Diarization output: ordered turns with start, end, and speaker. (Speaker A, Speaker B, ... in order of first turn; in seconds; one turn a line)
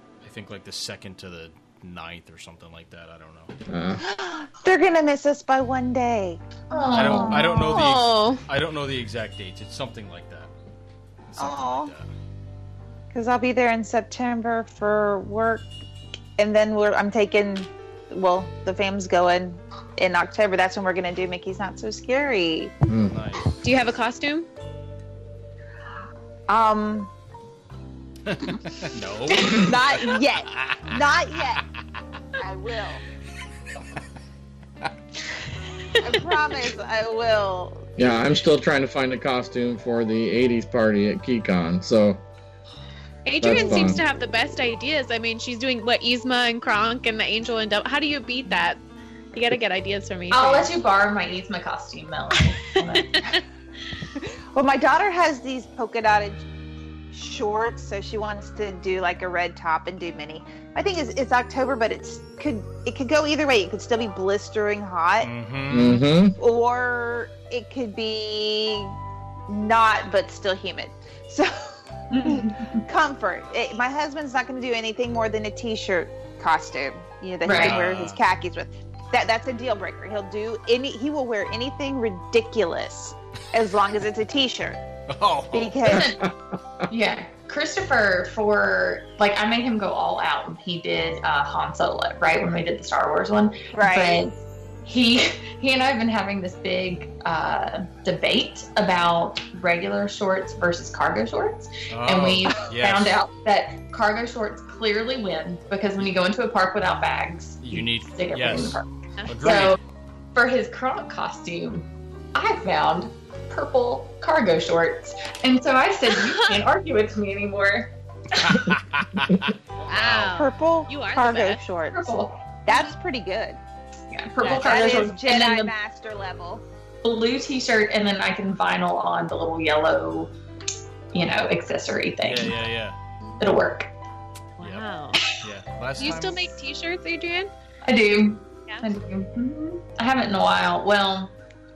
Speaker A: 0.2-3.5
Speaker B: 3.7-4.0
Speaker C: 4.0-7.8
Speaker D: 6.7-7.6
Speaker A: 6.9-10.5
Speaker E: 7.2-8.4
Speaker A: 11.3-12.1
Speaker C: 11.4-11.9
Speaker C: 13.1-15.7
Speaker C: 16.4-22.7
Speaker B: 22.9-23.1
Speaker A: 23.1-23.6
Speaker E: 23.6-24.5
Speaker C: 26.5-27.1
Speaker A: 28.3-31.0
Speaker C: 29.4-31.6
Speaker C: 32.4-33.0
Speaker C: 36.0-37.9
Speaker B: 38.0-42.2
Speaker E: 43.2-48.8
Speaker B: 43.4-44.0
Speaker C: 43.6-43.9
Speaker E: 49.3-50.7
Speaker D: 50.3-53.2
Speaker E: 53.0-53.4
Speaker C: 54.5-56.4
Speaker C: 57.1-65.3
Speaker A: 65.2-66.1
Speaker B: 65.7-66.4
Speaker C: 66.4-69.0
Speaker C: 69.5-84.8
Speaker D: 72.1-72.8
Speaker D: 77.4-77.8
Speaker A: 77.5-78.2
Speaker A: 85.1-86.0
Speaker C: 85.5-86.2
Speaker D: 85.9-86.2
Speaker D: 86.9-108.9
Speaker C: 93.7-94.2
Speaker A: 101.9-103.2
Speaker A: 107.6-109.8
Speaker D: 109.4-109.8
Speaker D: 110.3-118.7
Speaker E: 116.2-116.6
Speaker A: 118.4-120.4
Speaker E: 119.9-121.7
Speaker C: 120.3-123.6
Speaker D: 121.9-122.5
Speaker D: 124.1-125.7
Speaker C: 124.5-126.6
Speaker D: 127.0-130.3
Speaker D: 131.1-132.6
Speaker A: 132.2-133.0
Speaker D: 133.4-133.9
Speaker E: 134.6-135.2
Speaker A: 134.6-136.5
Speaker E: 136.0-137.5
Speaker D: 137.8-141.3